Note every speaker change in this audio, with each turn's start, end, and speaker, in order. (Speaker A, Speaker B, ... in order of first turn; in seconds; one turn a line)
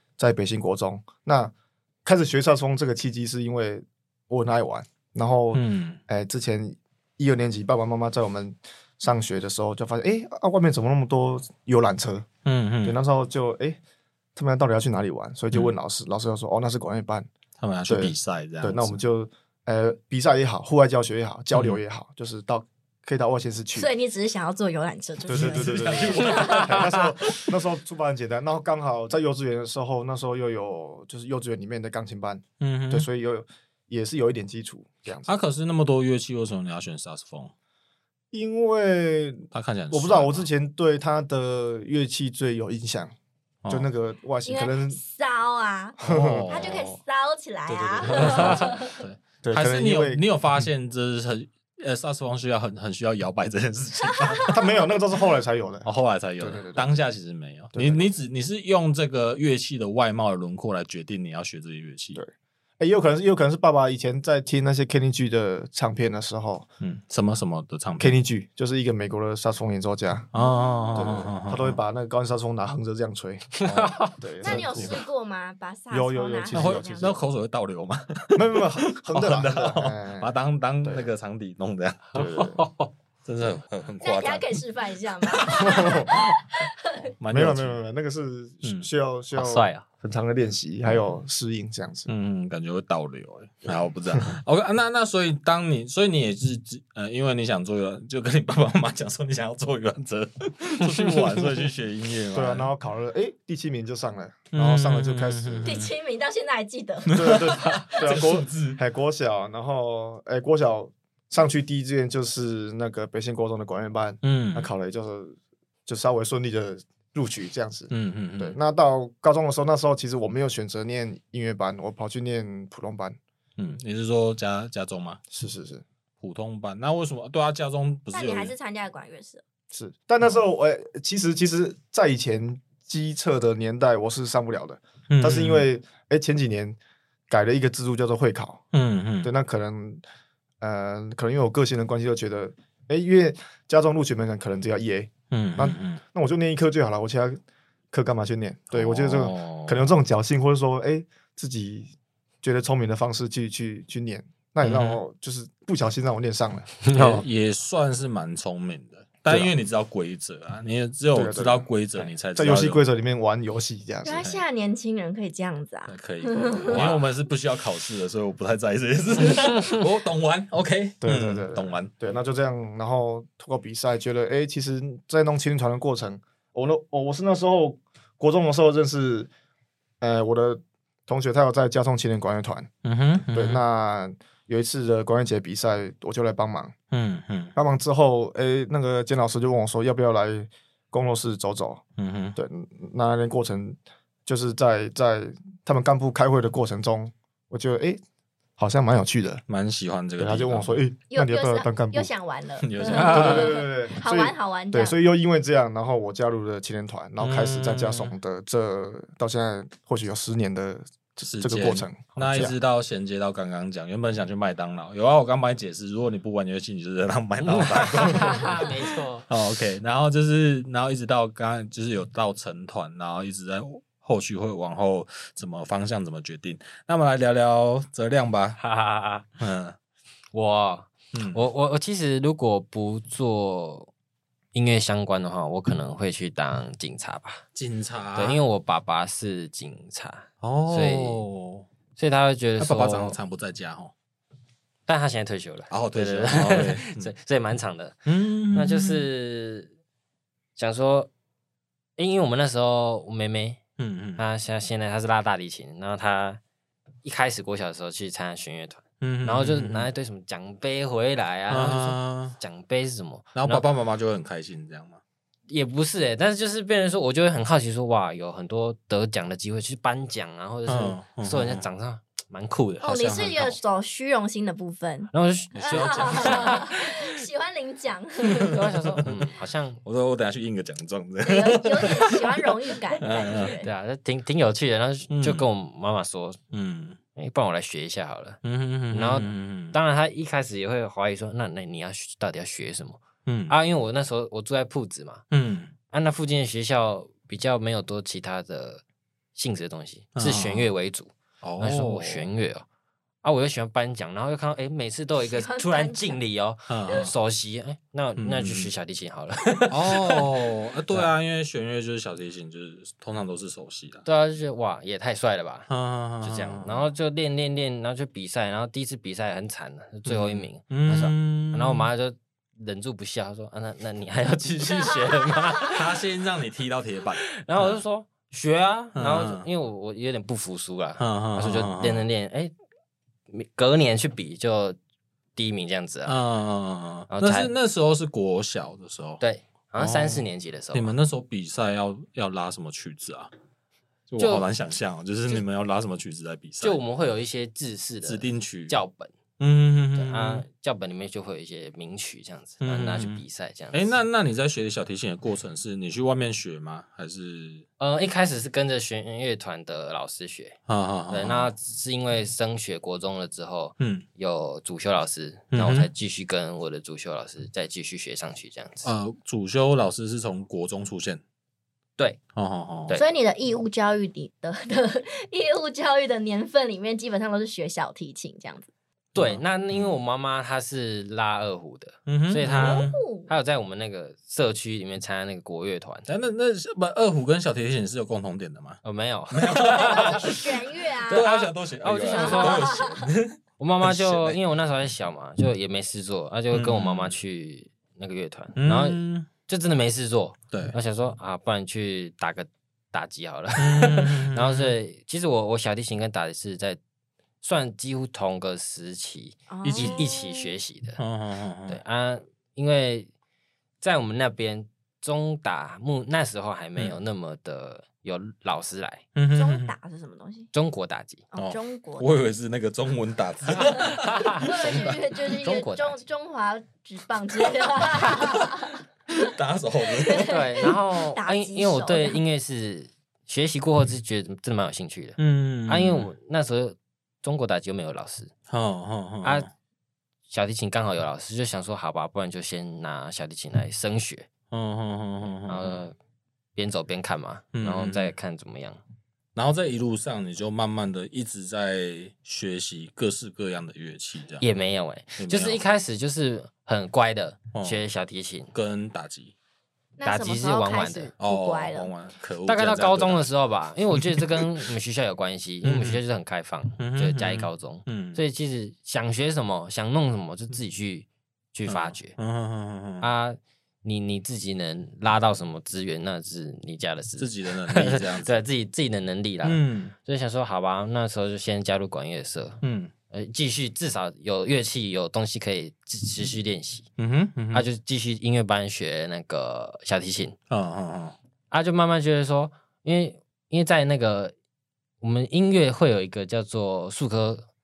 Speaker A: 0.2-1.5
Speaker A: 2.0-12.3
Speaker B: 5.5-6.0
Speaker B: 12.4-13.0
Speaker A: 12.8-13.8
Speaker A: 14.3-17.3
Speaker B: 17.6-19.0
Speaker A: 17.9-23.9
Speaker B: 21.5-21.8
Speaker C: 23.7-26.6
Speaker A: 25.3-35.3
Speaker B: 25.3-27.4
Speaker B: 32.6-33.1
Speaker B: 35.2-37.5
Speaker A: 38.3-43.1
Speaker B: 39.5-40.5
Speaker B: 43.6-43.9
Speaker A: 43.7-45.0
Speaker C: 44.5-49.0
Speaker A: 46.0-46.9
Speaker B: 46.0-46.9
Speaker B: 47.7-54.6
Speaker A: 48.1-48.7
Speaker A: 49.4-50.2
Speaker C: 54.2-54.6
Speaker A: 54.5-55.9
Speaker B: 55.9-62.2
Speaker A: 56.4-56.9
Speaker A: 57.7-58.1
Speaker A: 62.1-66.7
Speaker B: 66.8-68.2
Speaker A: 68.0-70.3
Speaker B: 70.3-71.8
Speaker C: 70.4-71.0
Speaker A: 70.9-73.6
Speaker D: 73.6-74.1
Speaker B: 73.6-75.0
Speaker A: 74.2-75.0
Speaker C: 74.4-77.2
Speaker A: 75.9-77.2
Speaker B: 76.5-82.4
Speaker A: 78.3-80.3
Speaker A: 80.8-81.1
Speaker A: 82.1-82.6
Speaker D: 82.1-82.9
Speaker B: 83.2-84.5
Speaker C: 84.0-87.0
Speaker B: 85.3-86.2
Speaker A: 85.5-86.2
Speaker B: 87.2-87.8
Speaker A: 87.3-92.1
Speaker B: 88.6-88.9
Speaker D: 89.3-89.8
Speaker B: 92.1-102.7
Speaker A: 102.3-105.8
Speaker B: 104.5-105.9
Speaker C: 105.6-107.8
Speaker B: 107.0-108.8
Speaker A: 107.1-123.2
Speaker B: 114.2-114.7
Speaker B: 117.9-118.6
Speaker B: 123.6-125.2
Speaker A: 125.3-125.8
Speaker B: 126.2-128.5
Speaker C: 128.1-129.4
Speaker A: 129.7-136.8
Speaker B: 135.1-135.6
Speaker A: 137.3-138.6
Speaker B: 138.7-139.3
Speaker A: 139.2-140.0
Speaker A: 140.6-156.7
Speaker B: 145.3-146.0
Speaker B: 148.7-149.9
Speaker B: 154.6-155.0
Speaker D: 156.8-157.2
Speaker B: 156.9-162.8
Speaker A: 159.3-159.5
Speaker A: 161.1-164.2
Speaker C: 164.0-166.9
Speaker B: 165.9-171.9
Speaker A: 166.7-167.0
Speaker A: 171.0-179.3
Speaker A: 180.0-182.7
Speaker B: 182.8-183.6
Speaker A: 183.3-186.7
Speaker B: 186.9-187.5
Speaker A: 187.5-191.8
Speaker B: 192.0-192.4
Speaker A: 192.3-198.0
Speaker A: 198.6-199.4
Speaker B: 199.5-200.8
Speaker A: 200.2-202.1
Speaker C: 201.1-204.9
Speaker B: 202.6-203.6
Speaker D: 202.9-203.4
Speaker A: 202.9-212.5
Speaker B: 207.2-208.1
Speaker B: 211.3-228.6
Speaker D: 217.4-219.2
Speaker D: 228.6-229.3
Speaker B: 229.4-229.8
Speaker D: 230.3-233.9
Speaker B: 231.1-231.4
Speaker D: 234.5-237.4
Speaker B: 237.5-238.4
Speaker D: 238.2-241.2
Speaker B: 240.4-241.7
Speaker D: 241.9-243.2
Speaker B: 242.6-243.9
Speaker D: 244.9-249.7
Speaker B: 245.7-247.1
Speaker B: 248.1-249.1
Speaker D: 250.6-251.1
Speaker D: 252.0-253.6
Speaker B: 253.8-254.2
Speaker D: 254.2-256.4
Speaker D: 257.0-263.6
Speaker B: 259.0-259.9
Speaker B: 261.5-262.4
Speaker B: 263.4-265.0
Speaker D: 265.5-273.0
Speaker B: 270.7-271.6
Speaker C: 272.8-278.6
Speaker B: 272.9-273.5
Speaker D: 275.1-276.8
Speaker B: 275.5-276.7
Speaker B: 278.4-279.3
Speaker D: 278.4-279.8
Speaker B: 279.8-282.4
Speaker C: 281.2-283.7
Speaker B: 283.0-283.5
Speaker D: 283.1-286.4
Speaker B: 285.1-285.5
Speaker B: 286.5-287.0
Speaker D: 287.1-288.4
Speaker B: 288.4-289.8
Speaker D: 288.9-295.2
Speaker B: 293.2-293.6
Speaker B: 295.3-295.7
Speaker D: 295.9-298.8
Speaker D: 299.4-302.6
Speaker B: 300.1-300.7
Speaker B: 301.4-302.3
Speaker D: 303.2-311.1
Speaker C: 305.2-306.2
Speaker B: 306.7-307.1
Speaker B: 308.2-308.7
Speaker B: 309.7-314.0
Speaker D: 314.0-315.7
Speaker B: 315.7-316.9
Speaker D: 316.2-326.0
Speaker B: 320.1-321.9
Speaker B: 325.1-327.8
Speaker D: 327.2-332.5
Speaker B: 328.9-329.5
Speaker B: 331.0-332.1
Speaker D: 333.3-334.8
Speaker D: 335.4-336.1
Speaker B: 336.1-339.2
Speaker D: 337.1-337.5
Speaker D: 339.2-340.9
Speaker B: 339.8-343.3
Speaker B: 344.1-346.8
Speaker D: 344.2-344.4
Speaker D: 346.6-349.1
Speaker B: 348.0-348.8
Speaker B: 349.4-350.4
Speaker D: 349.9-353.9
Speaker B: 352.6-353.2
Speaker B: 353.7-357.6
Speaker D: 357.8-360.6
Speaker B: 360.7-361.5
Speaker D: 361.1-368.9
Speaker B: 363.8-364.1
Speaker B: 365.5-365.9
Speaker B: 368.8-371.2
Speaker B: 372.3-373.0
Speaker C: 372.9-378.7
Speaker B: 379.1-380.0
Speaker D: 379.1-386.1
Speaker B: 382.1-382.9
Speaker C: 382.5-383.3
Speaker B: 386.1-390.5
Speaker D: 388.8-390.4
Speaker C: 389.7-391.3
Speaker B: 391.1-394.4
Speaker D: 391.1-392.8
Speaker C: 391.9-393.1
Speaker D: 393.6-406.8
Speaker B: 396.5-397.1
Speaker B: 398.6-399.3
Speaker B: 403.6-404.7
Speaker D: 407.4-411.0
Speaker C: 409.5-410.5
Speaker B: 409.6-410.1
Speaker B: 411.0-411.8
Speaker D: 411.7-413.1
Speaker D: 413.8-419.1
Speaker B: 419.1-419.7
Speaker C: 419.3-420.5
Speaker D: 420.5-421.2
Speaker C: 421.3-422.1
Speaker B: 421.4-425.0
Speaker D: 423.5-426.0
Speaker C: 424.4-429.3
Speaker B: 429.1-430.4
Speaker C: 430.0-432.2
Speaker D: 430.2-438.3
Speaker B: 435.2-436.1
Speaker B: 438.5-439.5
Speaker D: 440.3-444.3
Speaker B: 444.5-445.8
Speaker D: 445.5-445.9
Speaker D: 446.6-448.8
Speaker B: 447.6-448.1
Speaker B: 449.3-454.4
Speaker D: 454.4-458.5
Speaker B: 455.2-455.6
Speaker B: 457.5-457.8
Speaker B: 458.5-459.3
Speaker C: 460.0-461.9
Speaker D: 460.1-461.1
Speaker B: 461.2-463.3
Speaker D: 462.5-472.1
Speaker B: 463.9-464.4
Speaker B: 465.6-466.0
Speaker B: 466.8-468.2
Speaker B: 471.7-473.1
Speaker D: 473.0-482.6
Speaker B: 477.2-478.4
Speaker B: 479.4-479.9
Speaker B: 482.6-482.9
Speaker D: 483.1-486.9
Speaker B: 487.0-487.7
Speaker D: 487.5-490.4
Speaker B: 490.5-491.1
Speaker D: 491.5-494.3
Speaker D: 495.0-497.4